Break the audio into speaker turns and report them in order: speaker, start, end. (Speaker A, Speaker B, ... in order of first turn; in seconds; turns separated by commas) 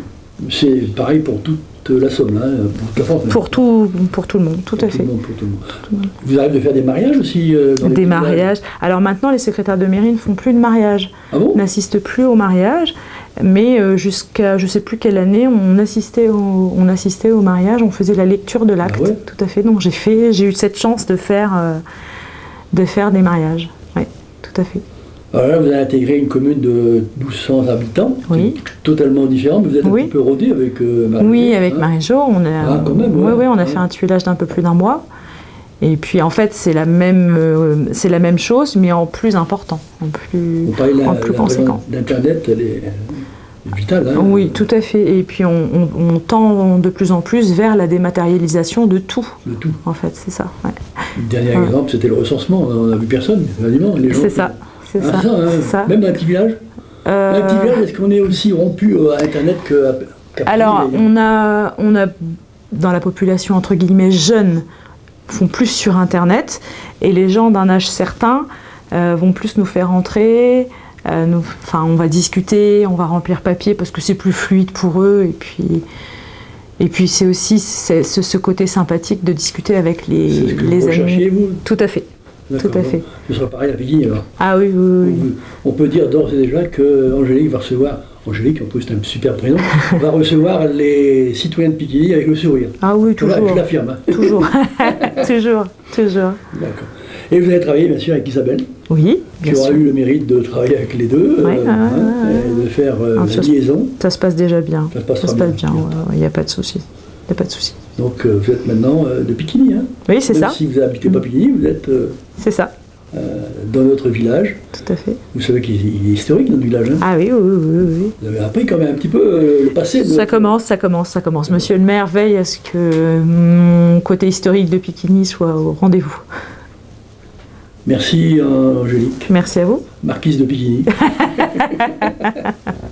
Speaker A: 0.4-3.6, Speaker B: 3.3-5.1, Speaker A: 4.8-8.5, Speaker B: 7.8-21.8, Speaker A: 11.3-11.6, Speaker A: 18.8-19.2, Speaker B: 22.7-24.8, Speaker A: 25.3-31.9, Speaker B: 28.3-28.6, Speaker B: 29.8-30.1, Speaker B: 31.2-35.0, Speaker A: 32.6-33.8, Speaker B: 35.8-41.8, Speaker A: 40.6-44.6, Speaker B: 44.1-50.8, Speaker A: 49.5-49.8, Speaker A: 51.1-56.6, Speaker B: 54.1-56.0, Speaker B: 57.0-57.8, Speaker A: 57.3-61.1, Speaker B: 60.5-62.1, Speaker B: 62.7-64.7, Speaker B: 65.3-75.8, Speaker B: 76.8-82.1, Speaker A: 80.3-81.6, Speaker A: 82.5-84.3, Speaker B: 82.6-83.0, Speaker B: 84.4-85.3, Speaker A: 85.0-95.2, Speaker B: 92.8-96.4, Speaker A: 96.5-98.7, Speaker B: 98.9-99.8, Speaker A: 99.4-104.0, Speaker B: 101.4-107.8, Speaker A: 104.9-105.9, Speaker A: 108.0-112.2, Speaker B: 110.1-110.6, Speaker B: 112.4-112.7, Speaker A: 113.1-114.6, Speaker B: 114.8-115.2, Speaker A: 115.3-117.1, Speaker B: 117.0-118.2, Speaker A: 118.2-120.5, Speaker B: 120.0-126.2, Speaker A: 127.8-129.3, Speaker B: 129.3-129.9, Speaker A: 130.0-132.3, Speaker B: 131.2-132.0